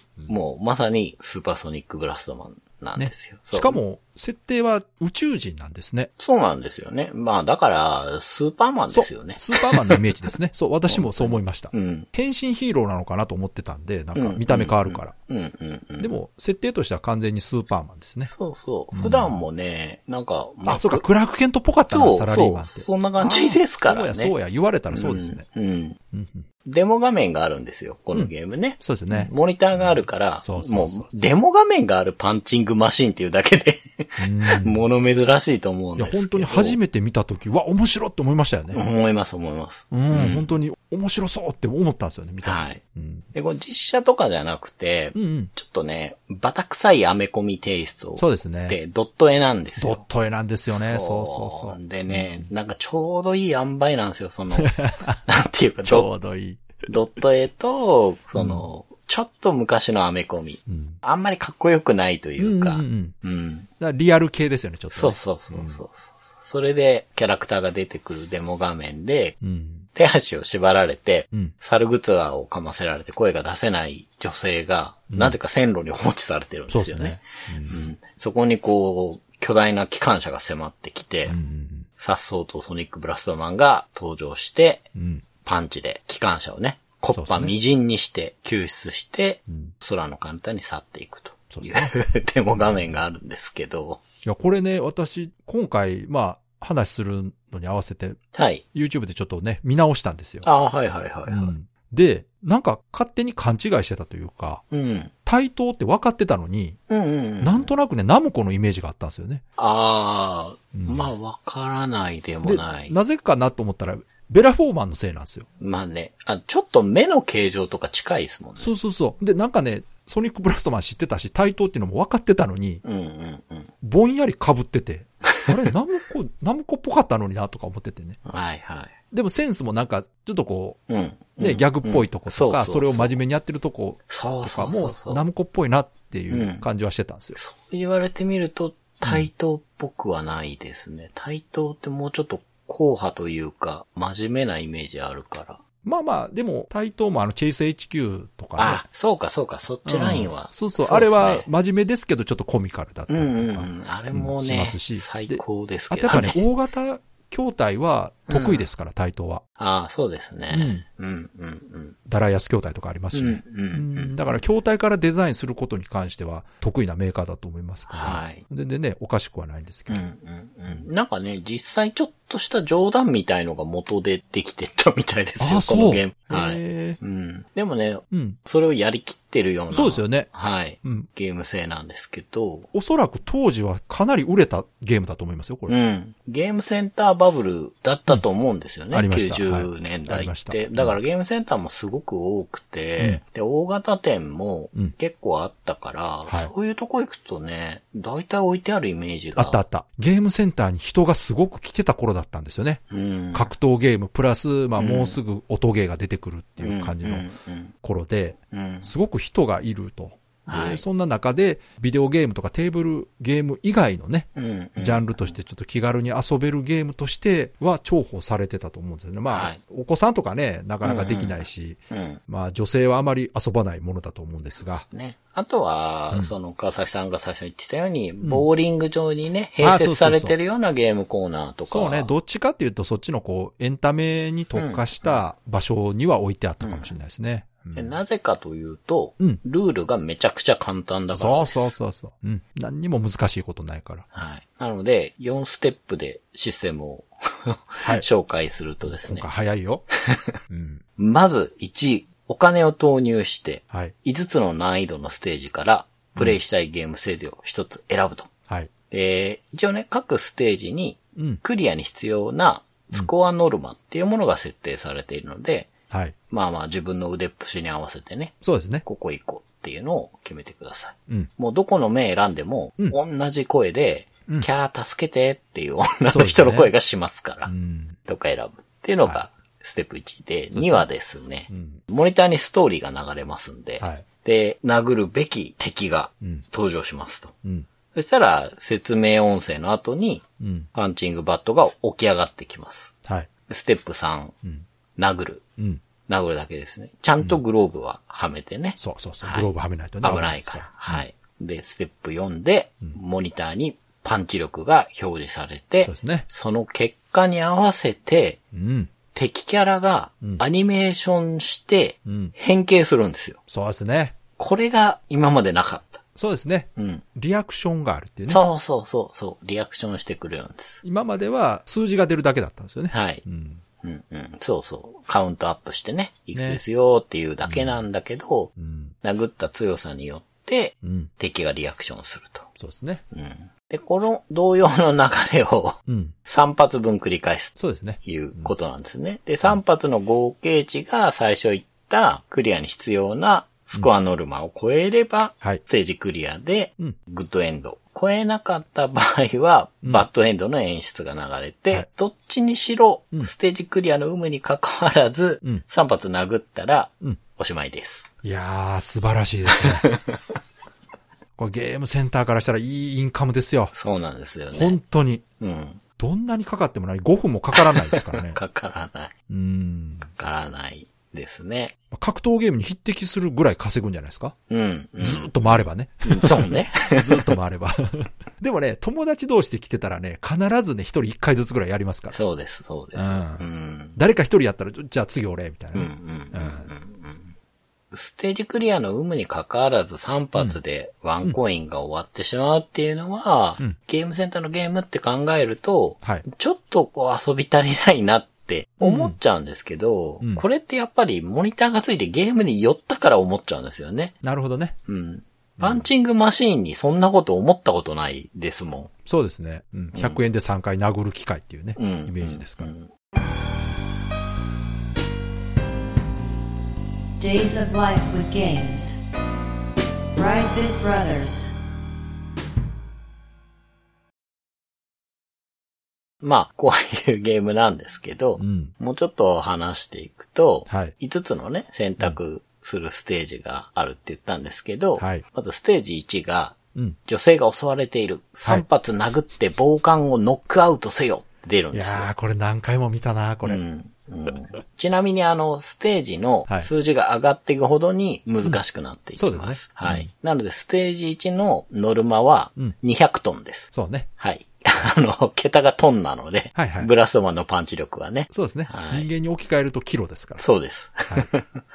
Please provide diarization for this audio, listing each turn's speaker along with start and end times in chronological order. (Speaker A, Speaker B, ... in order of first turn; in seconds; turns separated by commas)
Speaker A: 0.3-3.8, Speaker B: 3.0-6.1, Speaker A: 6.2-10.0, Speaker B: 8.9-15.1, Speaker A: 10.9-12.1, Speaker A: 14.1-16.1, Speaker B: 16.0-18.3, Speaker A: 18.3-21.1, Speaker B: 18.9-19.4, Speaker B: 20.6-25.4, Speaker A: 21.9-24.3, Speaker A: 24.9-26.0, Speaker B: 26.1-26.4, Speaker A: 26.6-36.8, Speaker B: 28.1-31.2, Speaker B: 34.2-34.8, Speaker B: 36.0-38.8, Speaker A: 38.7-40.5, Speaker B: 39.9-43.2, Speaker A: 42.4-42.8, Speaker A: 43.3-50.0, Speaker B: 45.1-45.5, Speaker B: 48.2-48.8, Speaker B: 49.8-52.5, Speaker A: 50.7-56.1, Speaker B: 54.6-55.2, Speaker B: 55.8-56.6, Speaker A: 56.9-63.7, Speaker B: 58.4-58.6, Speaker B: 60.7-61.0, Speaker B: 62.4-63.1, Speaker B: 63.8-65.8, Speaker A: 64.9-69.4, Speaker B: 69.4-69.8, Speaker A: 69.9-81.3, Speaker B: 76.7-77.8, Speaker B: 81.3-81.9, Speaker A: 82.0-84.9, Speaker B: 85.0-85.2, Speaker A: 85.4-94.0, Speaker B: 87.1-87.5, Speaker B: 89.5-89.7, Speaker B: 91.5-91.9, Speaker B: 94.2-98.2, Speaker A: 98.3-98.6, Speaker B: 98.7-100.5, Speaker A: 100.4-101.5, Speaker B: 101.3-104.6, Speaker A: 104.7-105.1, Speaker B: 105.2-106.8, Speaker A: 106.9-107.7, Speaker B: 107.4-109.4, Speaker A: 109.6-112.9, Speaker B: 110.7-111.1, Speaker B: 112.4-115.5, Speaker A: 115.6-118.7, Speaker B: 118.6-122.8, Speaker A: 122.8-123.7, Speaker B: 123.8-128.2, Speaker A: 128.2-128.9, Speaker B: 129.1-130.8, Speaker A: 130.9-133.2, Speaker B: 131.4-137.4, Speaker A: 134.1-135.2, Speaker A: 136.3-136.7, Speaker A: 137.4-145.6, Speaker B: 145.8-148.8, Speaker A: 148.6-151.5, Speaker B: 149.8-159.4, Speaker A: 153.1-156.4, Speaker A: 158.3-158.7, Speaker A: 159.6-162.0, Speaker B: 160.5-160.8, Speaker B: 162.1-170.0, Speaker A: 163.1-164.4, Speaker A: 167.9-168.4, Speaker A: 169.9-182.7, Speaker B: 175.4-177.0, Speaker B: 178.1-178.4, Speaker B: 179.7-180.3, Speaker B: 182.7-185.7, Speaker A: 185.7-199.6, Speaker B: 188.9-191.0, Speaker B: 196.3-196.5, Speaker B: 199.3-202.8, Speaker A: 202.9-203.5, Speaker B: 203.3-207.3, Speaker A: 204.8-205.2, Speaker A: 206.6-207.7, Speaker B: 207.8-224.8, Speaker A: 208.5-208.9, Speaker A: 210.4-210.8, Speaker A: 214.3-215.3, Speaker A: 219.3-219.6, Speaker A: 220.8-222.2, Speaker A: 224.8-232.1, Speaker B: 229.6-230.3, Speaker B: 231.7-237.9, Speaker A: 234.5-235.2, Speaker A: 236.6-236.9, Speaker A: 237.7-241.7, Speaker B: 241.1-244.0, Speaker A: 244.1-249.3, Speaker B: 248.8-249.8, Speaker A: 250.1-250.3, Speaker B: 250.5-250.8, Speaker A: 251.0-258.3, Speaker A: 258.9-265.7, Speaker B: 261.1-261.4, Speaker B: 265.9-266.1, Speaker A: 266.3-277.5, Speaker B: 268.4-268.8, Speaker B: 276.1-276.7, Speaker B: 277.4-278.0, Speaker A: 278.0-287.3, Speaker B: 280.5-280.9, Speaker B: 281.5-281.8, Speaker B: 283.8-284.0, Speaker A: 287.9-292.9, Speaker B: 290.4-290.7, Speaker A: 293.5-294.4, Speaker A: 295.0-295.4, Speaker A: 296.1-299.5, Speaker B: 298.8-301.0, Speaker A: 300.0-308.4, Speaker B: 305.8-306.2, Speaker B: 308.5-308.9, Speaker A: 309.1-313.4, Speaker B: 312.0-312.3, Speaker B: 313.5-314.2, Speaker A: 314.4-316.0, Speaker B: 316.1-318.4, Speaker A: 316.8-317.0, Speaker A: 318.3-320.8, Speaker B: 320.8-323.6, Speaker A: 322.9-323.2, Speaker A: 323.8-332.5, Speaker B: 326.3-326.6, Speaker B: 327.4-327.8, Speaker B: 328.6-328.9, Speaker B: 330.8-331.1, Speaker B: 332.6-333.0, Speaker A: 333.1-358.1, Speaker B: 335.9-336.1, Speaker B: 337.6-338.5, Speaker B: 358.2-359.9, Speaker A: 359.5-360.2, Speaker B: 361.4-363.7, Speaker A: 363.7-364.8, Speaker B: 364.5-365.2, Speaker A: 365.4-365.8, Speaker B: 366.0-368.4, Speaker A: 367.5-369.1, Speaker B: 369.3-370.1, Speaker A: 370.0-371.7, Speaker B: 371.9-374.3, Speaker A: 374.5-377.4, Speaker B: 375.0-382.2, Speaker A: 382.1-384.0, Speaker B: 382.9-383.4, Speaker B: 383.9-386.7, Speaker A: 385.7-387.3, Speaker A: 387.9-404.1, Speaker B: 398.8-399.1, Speaker B: 404.2-404.8, Speaker A: 404.9-408.9, Speaker B: 405.6-405.9, Speaker B: 409.1-412.7, Speaker A: 409.9-410.2, Speaker A: 411.8-412.9, Speaker C: 417.2-419.0, Speaker C: 420.1-421.5, Speaker A: 426.2-442.1, Speaker B: 428.4-428.7, Speaker B: 430.7-430.9, Speaker B: 435.0-435.2, Speaker B: 441.7-443.6, Speaker A: 443.4-459.1, Speaker B: 449.2-450.1, Speaker B: 453.7-454.1, Speaker B: 456.5-456.9, Speaker B: 458.3-460.4, Speaker A: 460.4-461.6